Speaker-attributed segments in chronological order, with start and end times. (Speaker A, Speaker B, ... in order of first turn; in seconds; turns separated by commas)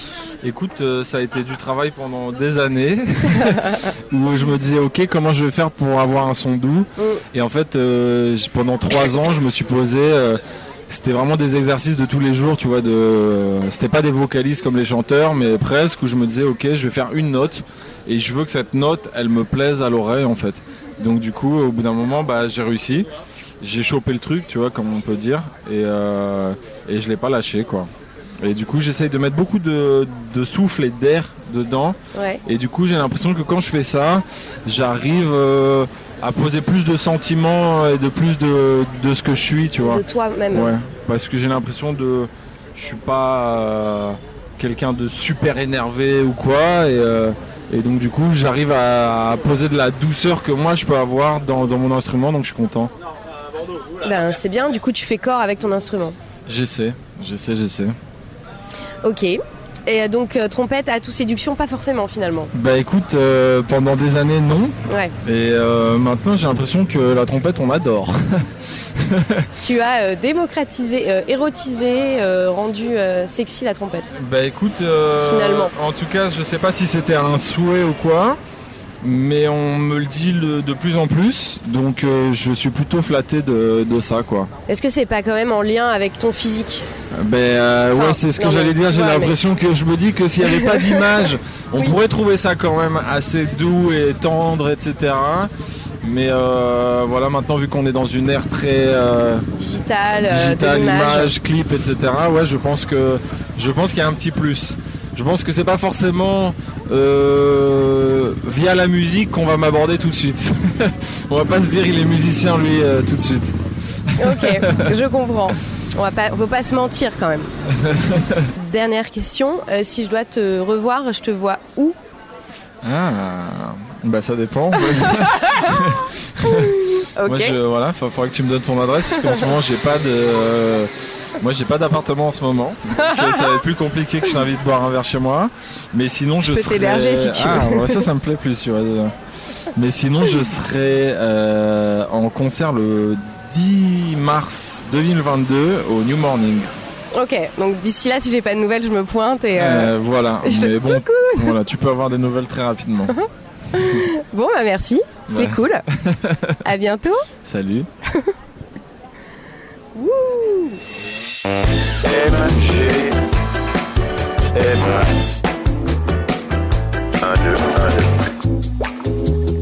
Speaker A: 0.4-23.1, Speaker B: 3.4-3.8, Speaker B: 7.0-7.2, Speaker A: 23.6-27.9, Speaker A: 28.4-52.9, Speaker B: 32.1-32.4, Speaker B: 39.8-40.8, Speaker B: 54.0-56.2, Speaker A: 56.5-57.9, Speaker B: 59.0-62.5, Speaker A: 62.5-69.5, Speaker B: 64.9-65.2, Speaker B: 69.6-74.2, Speaker A: 74.2-78.4, Speaker B: 75.2-75.7, Speaker A: 79.0-84.5, Speaker B: 84.7-86.9, Speaker A: 87.1-95.5, Speaker B: 87.9-89.4, Speaker B: 90.5-91.3, Speaker A: 96.0-99.5, Speaker B: 99.5-101.3, Speaker A: 100.2-113.5, Speaker A: 114.1-114.9, Speaker B: 114.2-117.5, Speaker A: 117.8-118.5, Speaker B: 118.5-122.0, Speaker A: 122.8-139.1, Speaker B: 124.8-127.6, Speaker B: 133.0-133.4, Speaker B: 136.4-138.1, Speaker A: 139.7-146.7, Speaker B: 147.1-151.6, Speaker A: 149.5-153.2, Speaker B: 153.1-155.9, Speaker A: 153.8-154.1, Speaker A: 155.3-156.6, Speaker B: 156.6-157.2, Speaker A: 157.4-157.9, Speaker B: 159.9-160.8, Speaker C: 162.0-163.2, Speaker C: 164.5-165.2, Speaker C: 167.2-168.3